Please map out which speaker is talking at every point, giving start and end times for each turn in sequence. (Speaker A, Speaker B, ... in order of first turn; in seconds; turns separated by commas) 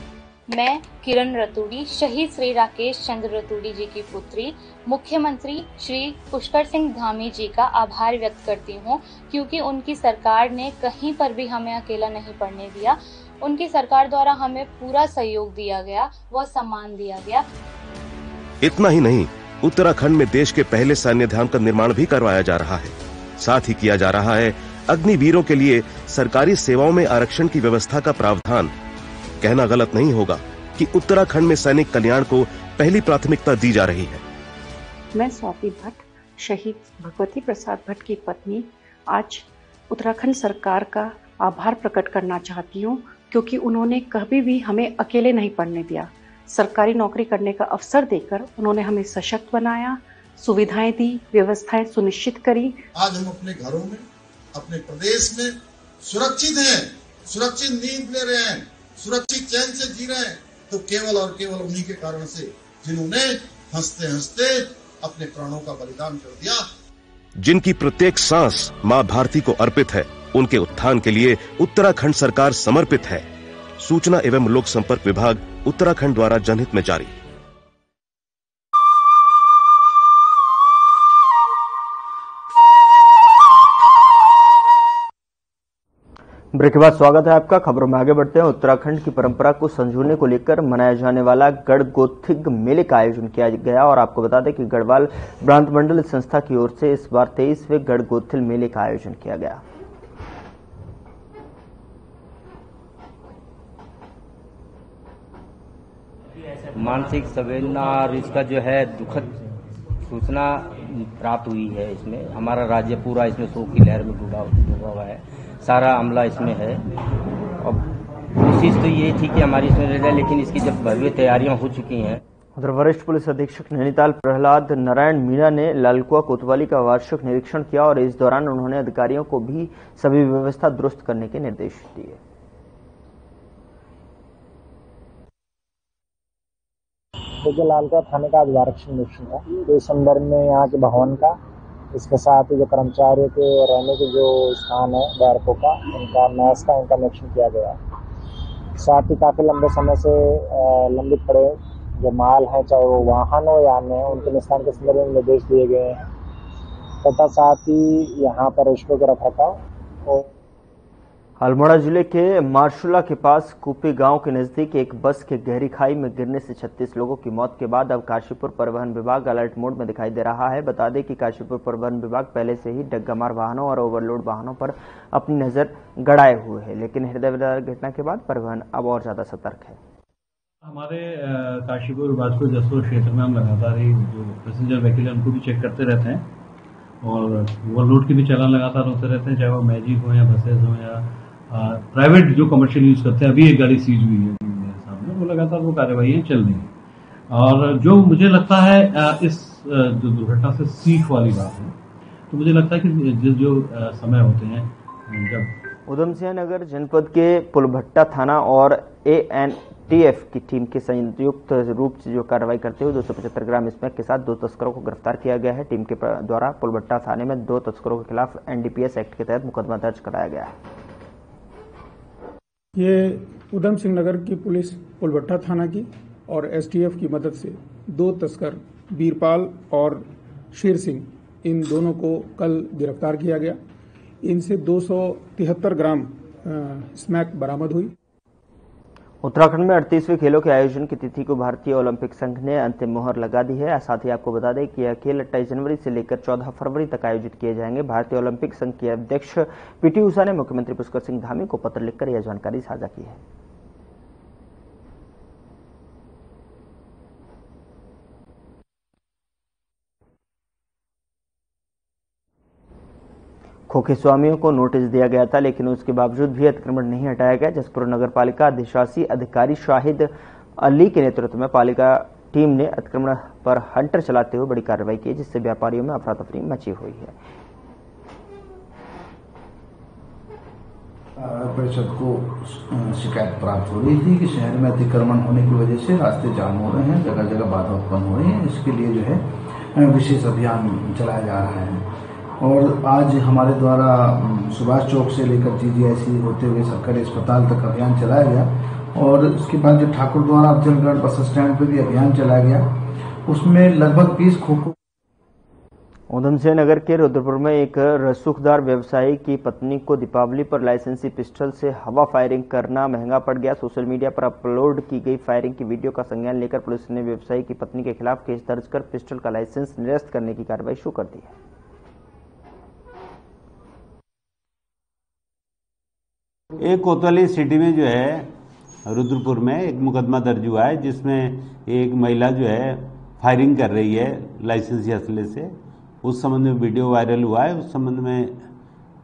Speaker A: 0.5-17.4, Speaker B: 18.6-28.7, Speaker B: 29.4-34.2, Speaker C: 35.1-52.8, Speaker D: 52.9-54.0, Speaker D: 54.5-66.6, Speaker B: 67.4-73.3, Speaker B: 73.8-77.1, Speaker E: 86.5-99.6, Speaker F: 106.8-109.2, Speaker F: 110.1-110.7, Speaker F: 111.2-116.8, Speaker F: 118.5-122.2, Speaker E: 122.6-132.2, Speaker G: 137.4-141.4, Speaker G: 141.9-147.8, Speaker G: 148.8-156.0, Speaker G: 157.0-160.3, Speaker E: 161.4-179.8, Speaker H: 180.6-186.3, Speaker H: 187.0-196.7, Speaker H: 197.3-201.8, Speaker H: 202.3-205.5, Speaker E: 205.9-220.5, Speaker I: 222.8-233.6, Speaker I: 234.2-237.9, Speaker E: 239.2-253.2, Speaker E: 263.7-277.1, Speaker J: 281.2-291.9, Speaker J: 292.4-302.7, Speaker J: 303.3-304.7, Speaker E: 306.1-321.3, Speaker K: 330.8-331.1, Speaker K: 331.7-332.2, Speaker K: 333.7-334.5, Speaker K: 336.1-337.2